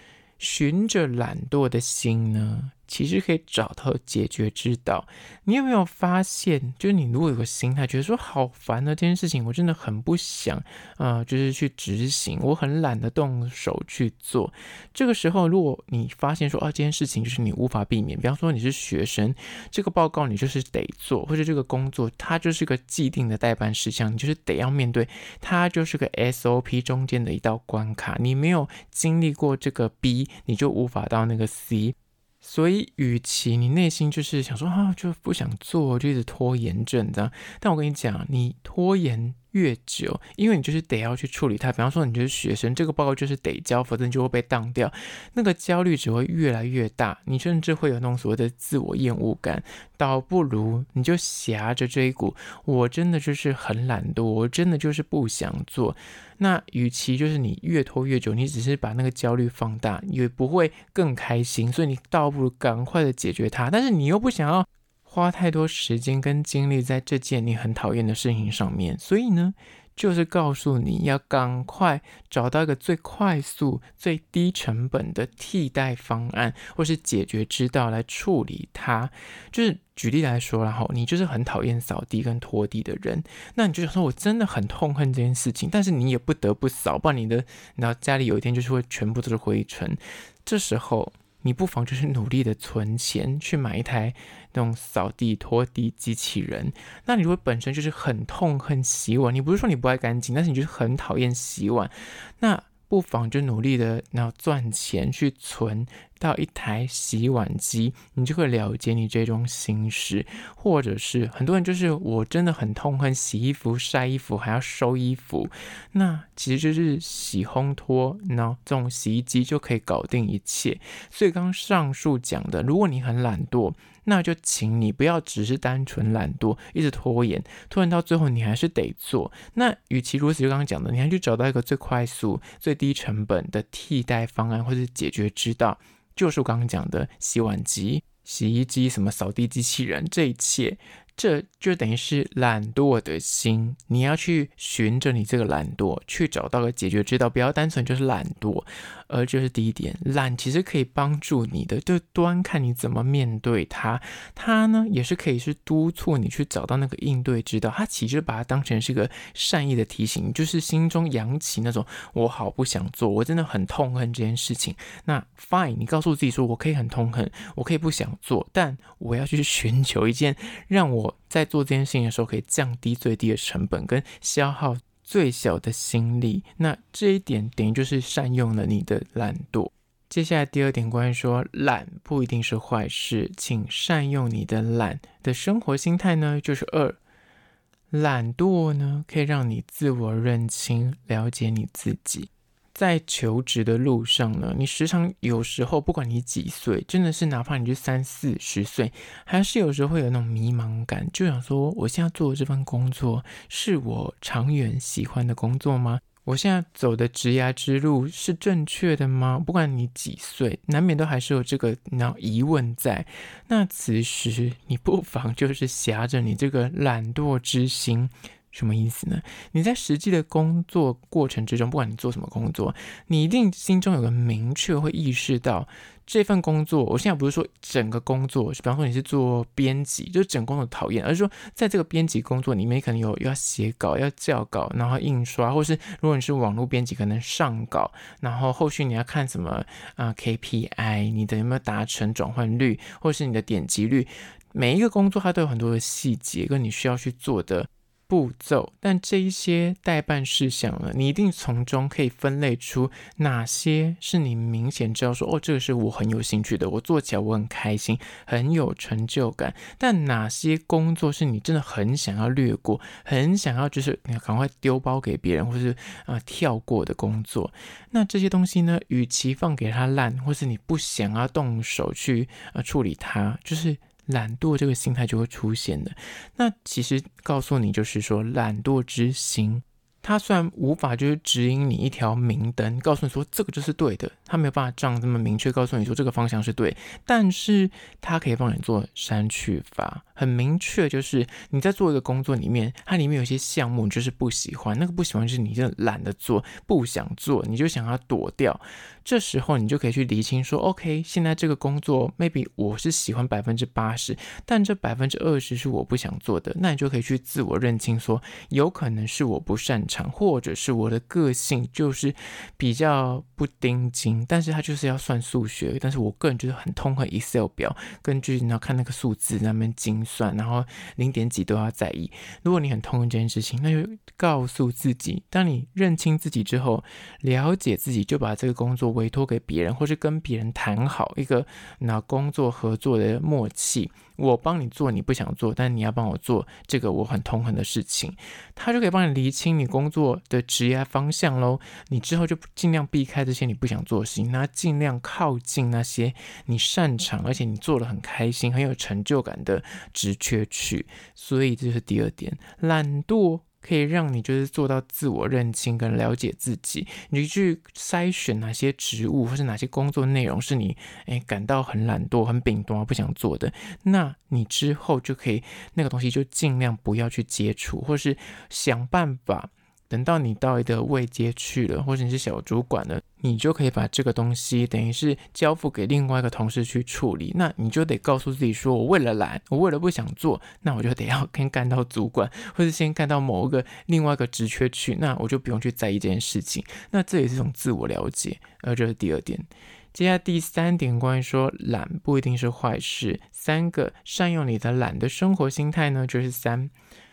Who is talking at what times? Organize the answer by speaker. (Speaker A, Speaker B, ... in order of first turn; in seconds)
Speaker A: 0.4-187.0, 187.9-396.7